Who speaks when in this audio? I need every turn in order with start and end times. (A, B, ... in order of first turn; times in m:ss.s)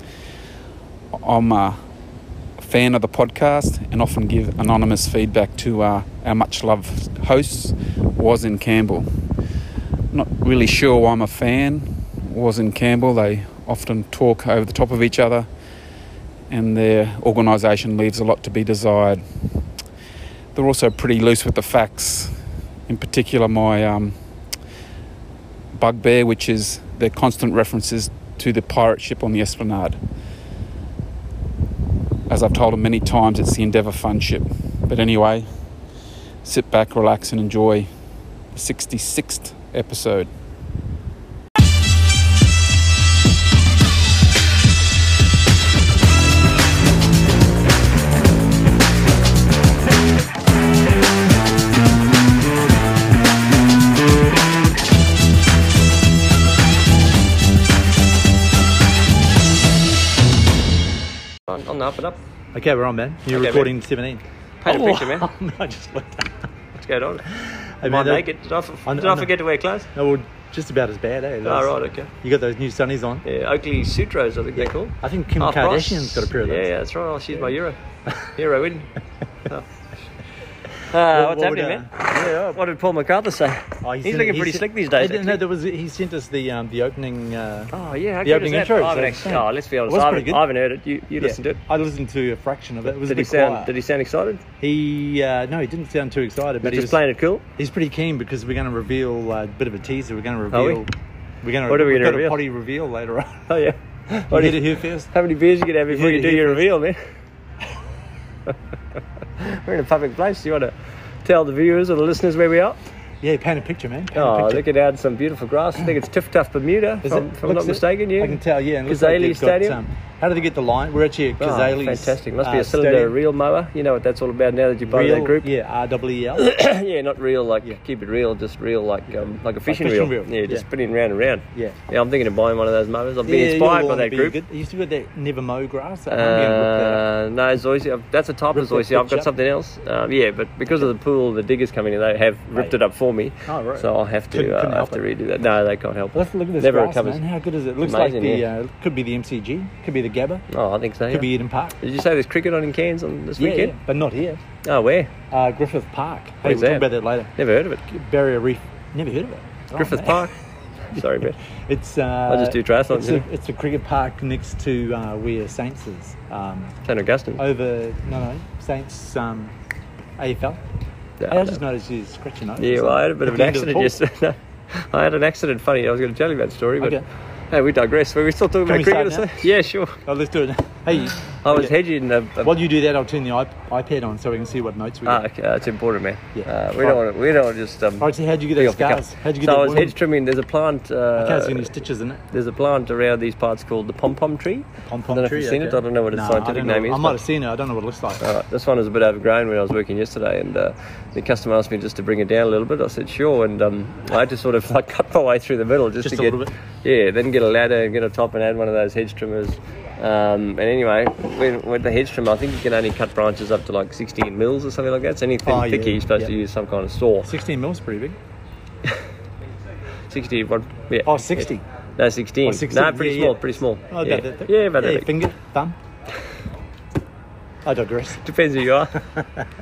0:01.1-0:01.8 A
0:02.6-0:09.1 A
0:10.1-0:15.5 A
0:16.5-0:19.2 A
0:20.6-0:24.2 A
0:25.8-0:30.0 A
0:32.3-0:35.6 A
0:36.4-0:37.9 A
0:38.5-0:40.3 A
1:01.5-1:02.2 B
1:02.5-1:06.4 C
1:03.3-1:03.7 B
1:04.6-1:05.3 B
1:06.8-1:07.2 B
1:07.3-1:08.3 C
1:07.8-1:09.9 B
1:08.9-1:09.3 C
1:09.9-1:13.2 C
1:11.4-1:12.1 B
1:13.2-1:17.8 B
1:14.6-1:16.7 C
1:18.4-1:18.9 B
1:20.9-1:25.4 B
1:21.1-1:22.5 C
1:23.8-1:27.7 C
1:27.7-1:31.6 B
1:28.2-1:30.4 C
1:31.2-1:33.7 C
1:32.9-1:34.4 B
1:34.6-1:37.0 C
1:36.6-1:37.4 B
1:37.6-1:40.9 C
1:40.5-1:40.8 B
1:41.4-1:43.5 C
1:41.7-1:42.4 B
1:43.5-1:47.0 B
1:44.3-1:45.1 C
1:45.9-1:46.7 C
1:49.4-1:52.8 B
1:53.2-1:54.7 C
1:54.1-1:59.8 B
1:57.0-2:03.2 C
2:01.4-2:05.5 B
2:04.9-2:06.5 C
2:06.4-2:14.4 B
2:09.7-2:10.7 C
2:13.2-2:17.0 C
2:16.1-2:27.2 B
2:18.5-2:19.3 C
2:23.5-2:25.0 C
2:26.1-2:30.4 C
2:27.8-2:28.5 B
2:30.5-2:31.3 B
2:31.1-2:31.8 C
2:31.8-2:33.8 B
2:33.4-2:34.4 C
2:34.6-2:35.1 B
2:35.3-2:37.3 C
2:36.4-2:37.8 B
2:37.9-2:40.3 C
2:39.7-2:40.3 B
2:40.9-2:41.4 B
2:41.0-2:46.7 C
2:42.3-2:43.3 B
2:46.8-2:47.4 B
2:47.4-2:49.6 C
2:50.2-2:50.6 C
2:51.2-2:51.6 B
2:51.3-2:54.0 C
2:52.6-2:57.0 B
2:56.8-2:57.0 C
2:57.5-3:00.0 B
2:58.7-2:59.5 C
3:00.0-3:01.8 C
3:01.4-3:02.6 B
3:02.4-3:05.2 C
3:05.0-3:11.7 B
3:06.4-3:07.0 C
3:08.0-3:10.0 C
3:11.2-3:12.2 C
3:12.3-3:17.2 B
3:14.8-3:18.2 C
3:18.2-3:37.3 B
3:26.0-3:26.5 C
3:35.4-3:36.3 C
3:37.2-3:38.2 C
3:40.1-3:41.5 B
3:41.0-3:41.6 C
3:42.0-3:45.1 B
3:42.4-3:45.8 C
3:47.6-3:48.2 C
3:48.2-3:49.0 B
3:49.2-3:49.4 C